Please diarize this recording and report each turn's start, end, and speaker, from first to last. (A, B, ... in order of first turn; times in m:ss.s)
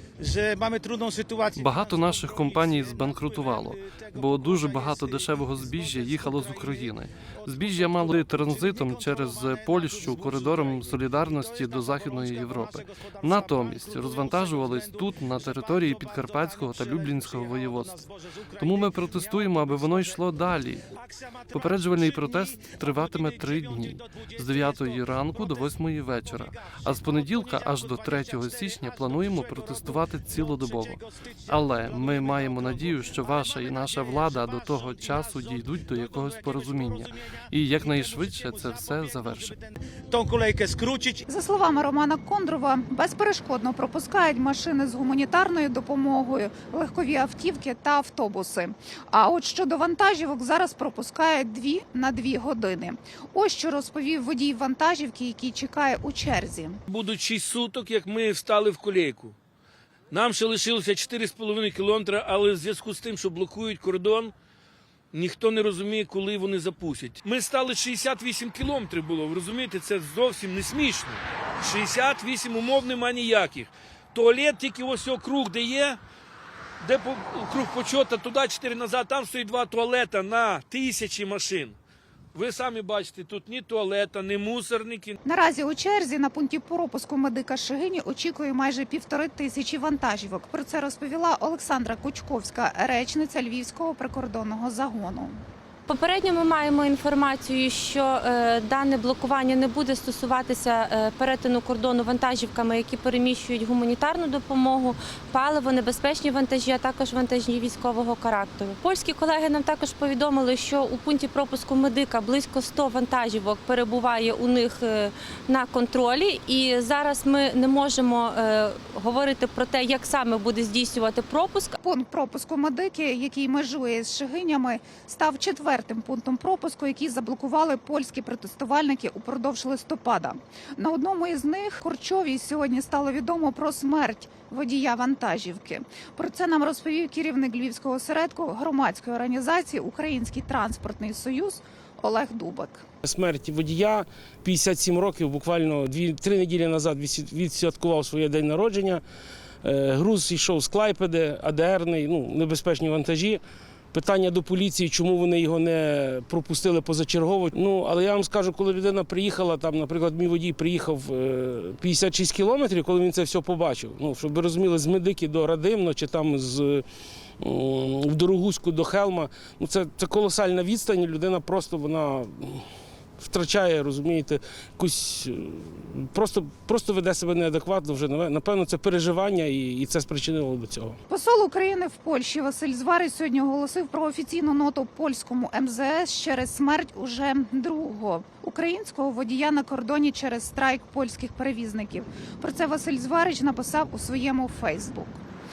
0:00.2-0:25.8 A
0:01.5-0:20.9 B
0:21.5-0:39.6 B
0:26.4-0:37.1 A
0:37.6-0:41.2 A
0:41.3-0:56.8 C
0:56.9-0:59.4 D
1:00.1-1:04.3 D
1:05.1-1:16.0 D
1:16.8-1:21.8 D
1:22.3-1:25.2 D
1:25.2-1:35.4 C
1:35.9-2:01.8 E
2:01.8-2:22.8 C
2:23.0-2:29.0 F
2:29.6-2:33.4 F
2:33.9-2:46.8 F
2:47.4-2:52.6 F
2:53.2-3:01.0 F
3:01.1-3:15.2 C